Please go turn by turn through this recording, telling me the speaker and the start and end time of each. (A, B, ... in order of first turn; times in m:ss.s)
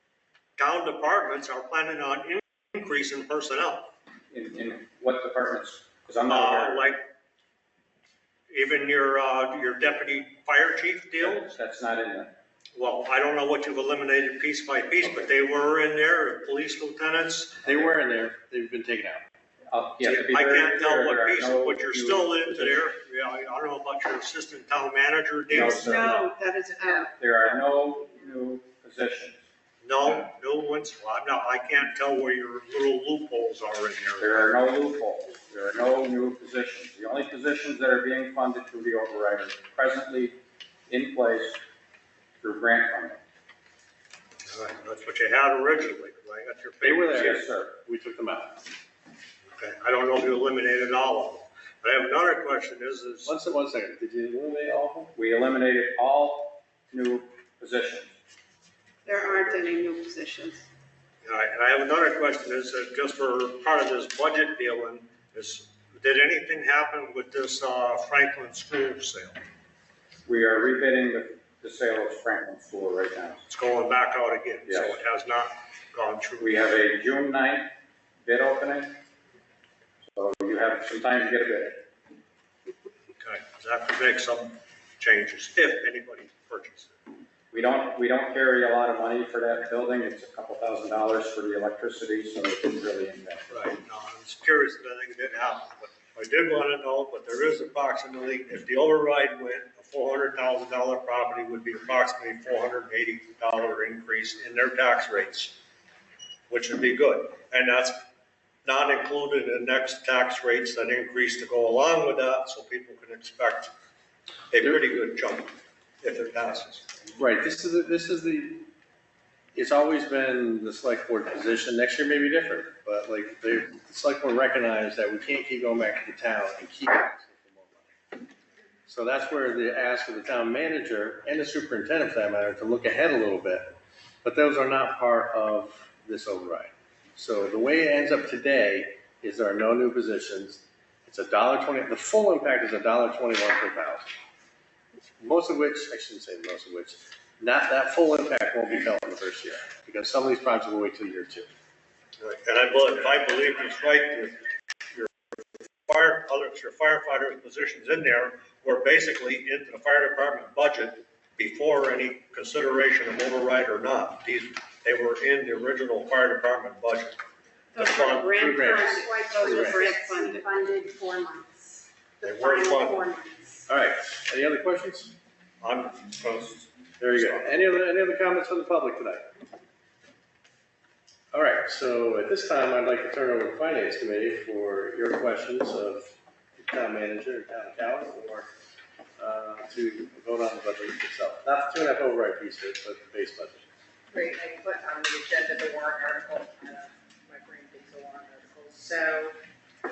0:00.6-0:03.9 A
0:04.3-0:06.9 B
0:06.3-0:07.0 A
0:08.5-0:11.5 A
0:11.2-0:12.3 B
0:12.8-0:17.8 A
0:17.6-0:19.2 C
0:19.7-0:22.8 B
0:20.0-0:26.3 A
0:25.5-0:26.3 B
0:25.5-0:27.1 D
0:27.2-0:29.4 B
0:29.8-0:34.5 A
0:34.2-0:40.4 B
0:40.9-0:41.6 B
0:42.4-0:43.2 B
0:44.5-0:47.4 A
0:46.8-0:48.6 C
0:47.1-0:47.8 B
0:49.5-0:53.3 A
0:53.2-0:55.1 C
0:55.2-0:58.2 B
0:59.0-1:00.6 D
1:01.2-1:09.4 A
1:10.2-1:13.4 B
1:13.5-1:16.6 A
1:14.7-1:15.0 B
1:16.4-1:17.7 B
1:18.2-1:18.9 B
1:20.1-1:21.8 B
1:23.2-1:27.0 A
1:27.5-1:33.5 B
1:33.5-1:45.6 A
1:46.5-1:48.0 A
1:48.6-1:53.7 A
1:54.5-1:56.9 A
1:57.2-1:58.7 C
1:59.6-2:08.2 C
2:08.9-2:24.1 C
2:25.2-2:31.5 C
2:32.2-2:34.4 A
2:35.9-2:47.2 A
2:47.8-2:50.6 D
2:47.8-2:48.8 A
2:48.4-2:48.9 C
2:49.0-2:51.0 E
2:49.4-2:49.8 C
2:52.2-2:53.0 A
2:52.2-2:53.0 D
2:53.7-2:55.2 C
2:55.6-2:57.5 A
2:57.0-2:59.3 C
3:01.3-3:08.5 C
3:09.2-3:13.7 C
3:14.1-3:19.4 F